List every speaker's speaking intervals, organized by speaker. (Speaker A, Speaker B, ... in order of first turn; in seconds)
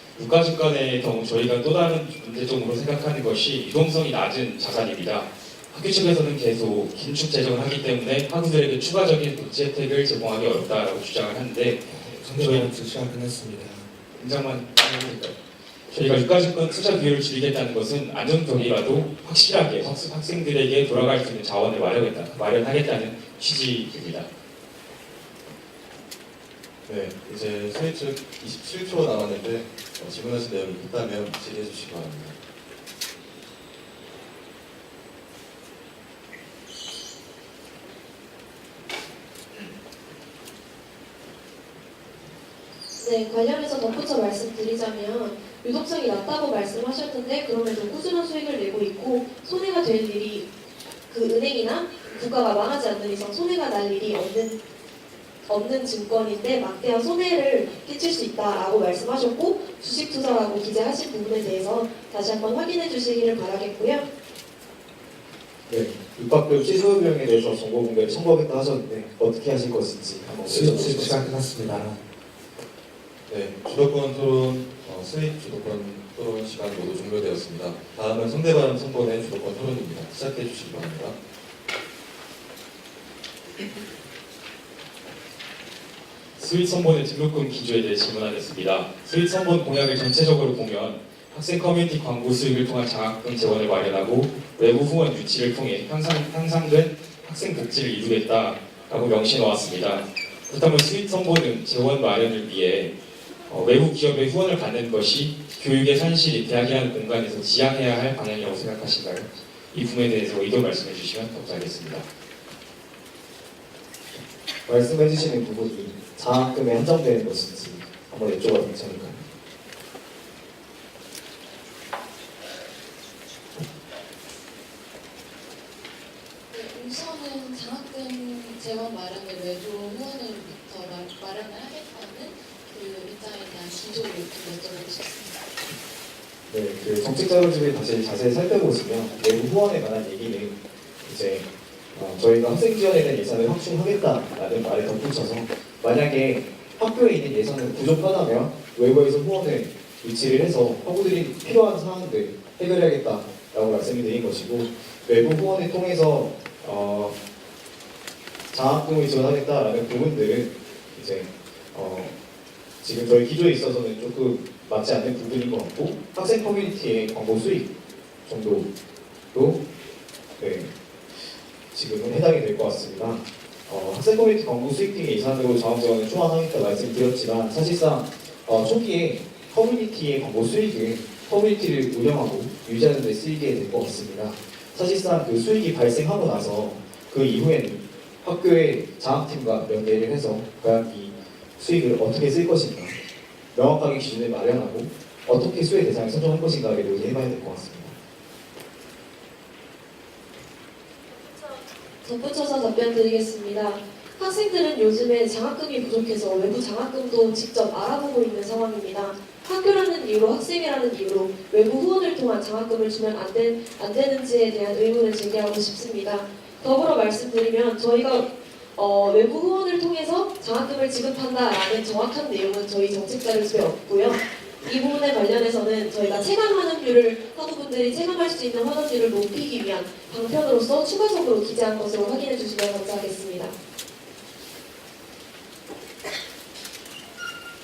Speaker A: 0.1-12.7, 14.2-15.3, 15.9-24.3, 86.4-102.9, 103.5-112.0
Speaker B: 11.9-13.9, 70.3-72.0
Speaker C: 26.9-32.4, 73.3-81.2
Speaker D: 43.0-50.5, 51.1-54.6, 55.5-64.1, 202.0-233.5
Speaker E: 65.7-71.3, 114.7-119.2, 136.5-157.2, 158.5-162.1, 162.8-167.7, 168.2-168.7, 169.3-169.6, 170.4-193.0, 193.5-198.0
Speaker F: 126.5-135.4